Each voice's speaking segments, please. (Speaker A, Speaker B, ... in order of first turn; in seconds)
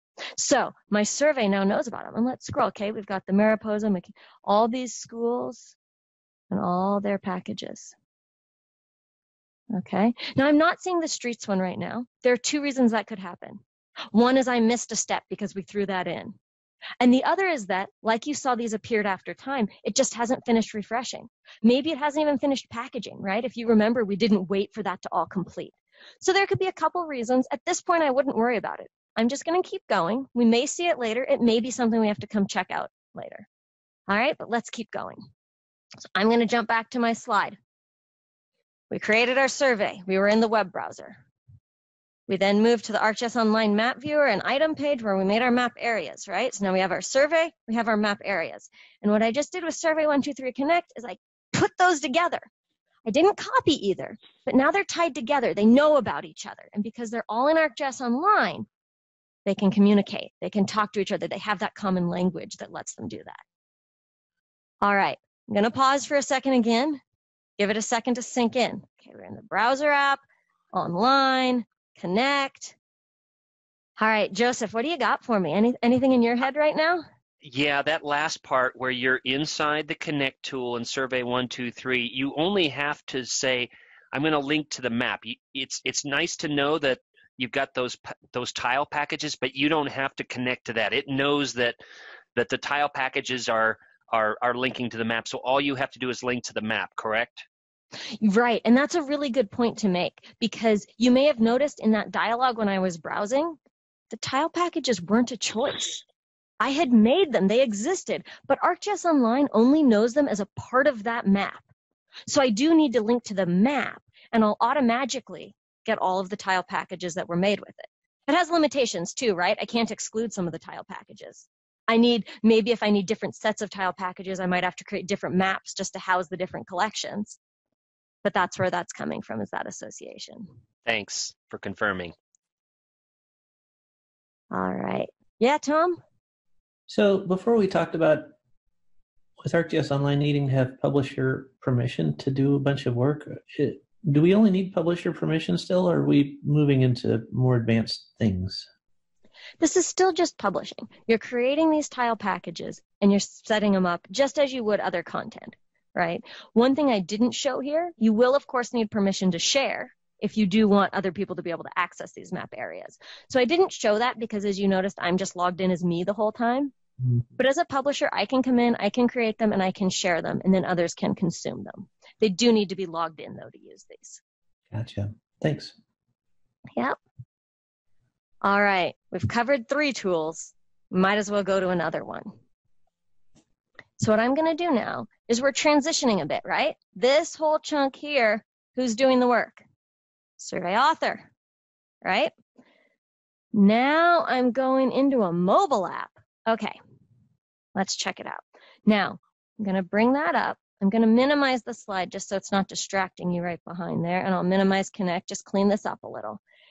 Speaker A: 0.3-5.8, 6.5-7.9, 9.7-13.6, 14.1-16.4, 17.0-33.5, 34.1-35.2, 36.1-37.6, 38.9-41.2, 42.3-52.5, 53.0-58.6, 59.5-63.4, 64.8-67.0, 67.6-72.8, 74.0-77.0, 98.2-103.6, 104.1-106.0, 106.6-111.6, 112.3-127.4, 128.2-130.5, 134.5-136.0, 149.6-166.7, 167.4-174.2, 178.4-182.3, 184.0-189.6, 190.4-191.3, 192.0-192.3, 193.5-196.8, 197.7-206.4
Speaker B: 77.4-91.8, 92.3-97.4, 130.8-132.1
Speaker C: 136.9-138.3, 139.4-148.7, 174.7-175.7